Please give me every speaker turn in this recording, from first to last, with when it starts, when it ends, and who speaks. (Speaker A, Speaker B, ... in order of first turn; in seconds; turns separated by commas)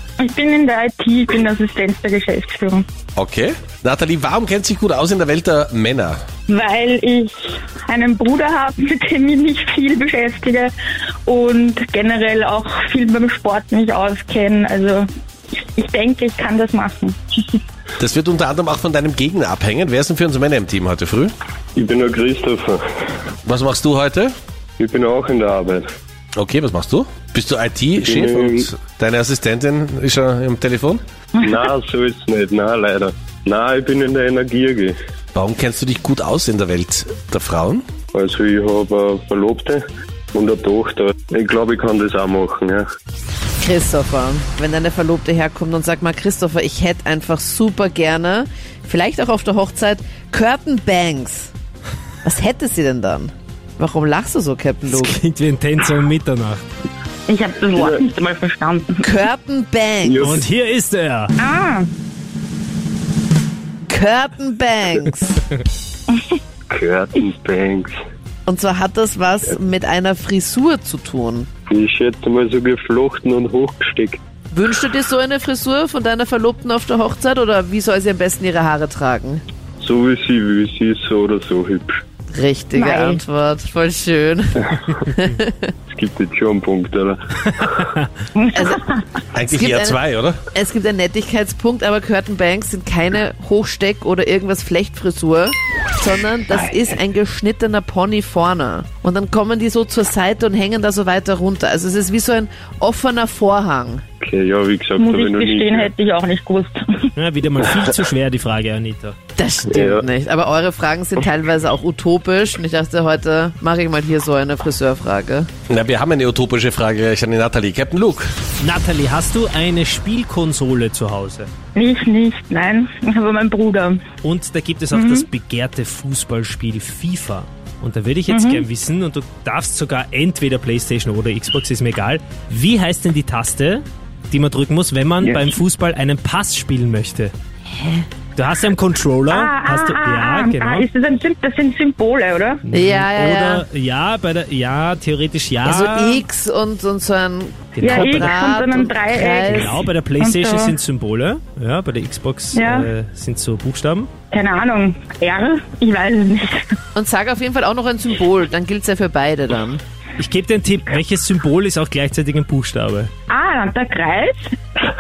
Speaker A: 0.2-2.8, Speaker B: 3.1-6.2, Speaker A: 6.5-10.7, Speaker A: 11.2-15.1, Speaker A: 15.8-17.4, Speaker B: 18.0-21.3, Speaker C: 21.8-22.8, Speaker B: 23.4-24.3, Speaker C: 24.8-25.8, Speaker B: 26.4-31.0, Speaker C: 28.0-28.7, Speaker C: 31.4-35.0, Speaker B: 35.3-37.8, Speaker C: 38.1-42.8, Speaker D: 43.6-51.5, Speaker D: 52.2-55.2, Speaker E: 54.9-56.6, Speaker A: 57.3-59.0, Speaker C: 57.8-58.0, Speaker D: 59.0-60.4, Speaker C: 60.1-60.4, Speaker E: 60.2-61.3, Speaker A: 61.4-61.9, Speaker D: 63.9-65.4, Speaker C: 66.7-67.9, Speaker D: 68.5-71.5, Speaker C: 71.7-74.2, Speaker D: 74.5-79.4, Speaker C: 79.8-82.0, Speaker D: 82.3-85.7, Speaker A: 82.7-83.2, Speaker C: 85.9-87.2, Speaker E: 87.6-88.0, Speaker A: 88.4-89.0, Speaker D: 88.5-88.8, Speaker B: 89.3-90.4, Speaker D: 89.4-90.0, Speaker D: 90.5-104.0, Speaker C: 104.2-105.9, Speaker A: 105.0-107.0, Speaker E: 107.2-109.2, Speaker D: 109.4-115.5, Speaker B: 115.7-118.3, Speaker E: 118.6-121.5, Speaker A: 121.8-124.0, Speaker E: 124.2-137.3, Speaker A: 124.9-125.2, Speaker A: 128.3-128.7, Speaker E: 138.3-140.9, Speaker A: 139.3-142.6, Speaker E: 142.7-146.2, Speaker D: 142.7-143.7, Speaker D: 145.6-149.8, Speaker E: 147.7-148.4, Speaker A: 147.8-150.7, Speaker E: 149.5-154.1, Speaker A: 152.6-152.9, Speaker A: 154.3-156.6, Speaker D: 156.9-159.8, Speaker E: 160.2-163.1, Speaker A: 163.3-164.4